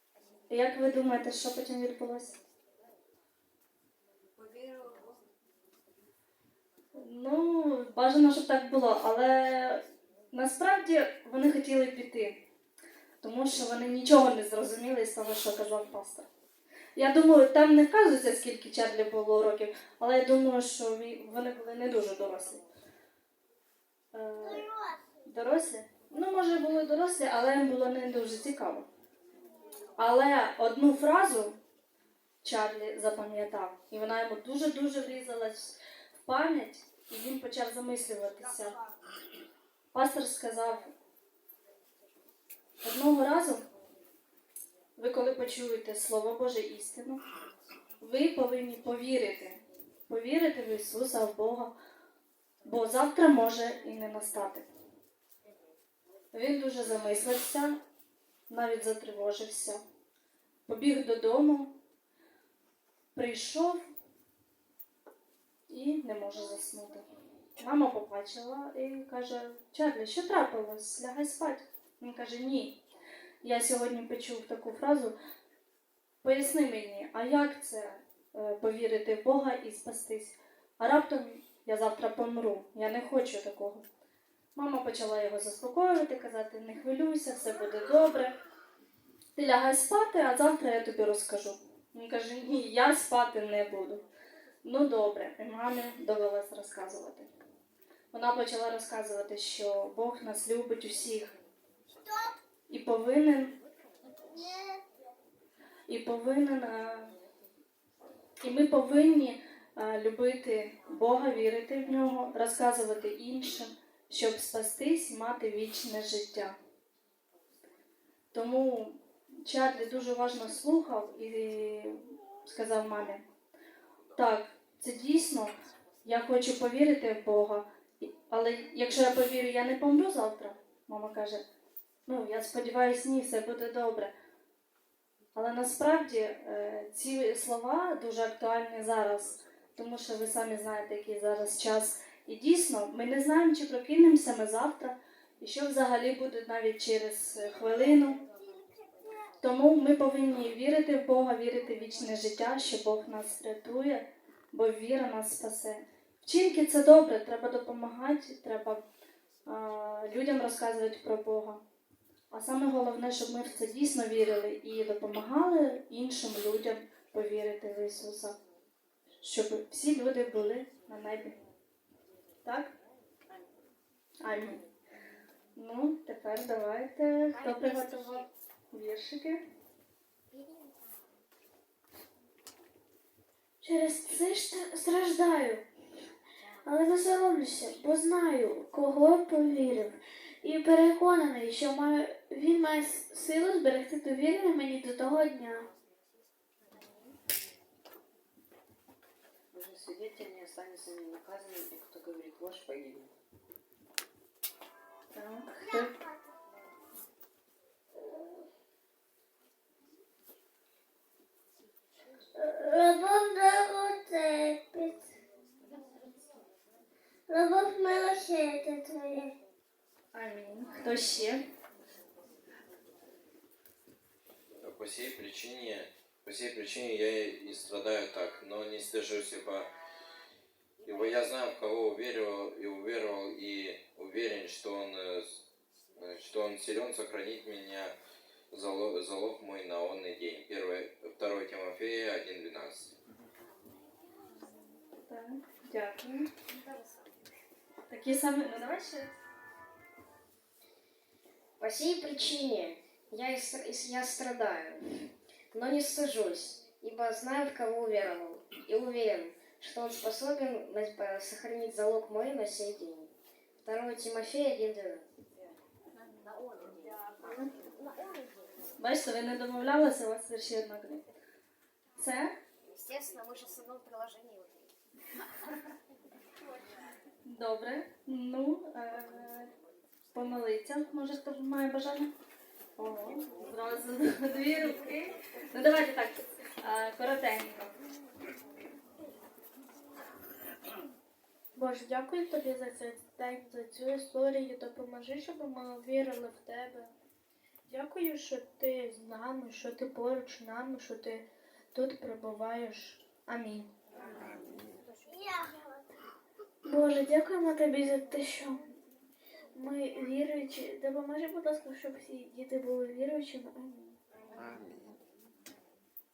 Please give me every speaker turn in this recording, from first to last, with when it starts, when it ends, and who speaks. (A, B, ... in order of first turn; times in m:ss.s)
0:00.5-0:02.4 A
0:07.0-0:12.4 A
0:13.2-0:16.3 A
0:17.0-0:22.6 A
0:24.1-0:24.6 A
0:24.4-0:25.0 B
0:25.2-0:28.9 A
0:30.0-0:31.6 A
0:32.4-0:38.8 A
0:39.9-0:40.9 A
0:42.8-0:43.6 A
0:45.0-0:47.2 A
0:48.0-0:51.7 A
0:52.6-0:54.6 A
0:56.3-0:57.8 A
0:58.5-0:59.8 A
1:00.7-1:01.7 A
1:03.1-1:03.8 A
1:05.7-1:07.0 A
1:07.6-1:12.8 A
1:13.4-1:15.1 A
1:16.2-1:23.8 A
1:24.5-1:28.3 A
1:29.4-1:34.0 A
1:34.6-1:37.3 A
1:38.1-1:41.3 A
1:42.0-1:42.3 B
1:42.7-1:43.5 A
1:44.3-1:44.8 B
1:45.9-1:47.1 A
1:48.4-1:56.6 A
1:58.3-2:03.2 A
2:04.2-2:05.5 A
2:06.0-2:11.4 A
2:12.1-2:14.1 A
2:15.3-2:28.2 A
2:27.4-2:29.3 B
2:29.4-2:38.8 A
2:39.5-2:41.6 A
2:42.3-2:48.3 A
2:49.2-2:51.3 A
2:52.4-2:52.7 A
2:54.2-2:54.6 A
2:55.6-2:59.4 A
3:03.6-3:05.6 C
3:06.6-3:15.7 C
3:19.5-3:23.1 D
3:25.1-3:25.9 A
3:25.6-3:26.2 B
3:28.0-3:28.4 B
3:32.4-3:35.1 B
3:37.3-3:39.3 B
3:40.1-3:41.4 A
3:44.6-3:49.7 E
3:50.8-3:55.4 E
3:56.0-3:57.9 E
3:58.5-4:02.9 E
4:05.1-4:06.3 A
4:06.5-4:06.8 F
4:07.9-4:09.1 A
4:11.6-4:23.1 F
4:23.6-4:25.0 F
4:26.2-4:28.2 F
4:28.8-4:31.0 A
4:32.0-4:32.3 A
4:32.7-4:34.7 F
4:37.2-4:39.5 A
4:40.1-4:42.1 A
4:42.8-4:47.7 A
4:51.5-4:56.9 C
4:57.7-5:03.7 C
5:05.0-5:06.0 B
5:06.6-5:08.7 C
5:09.5-5:14.0 C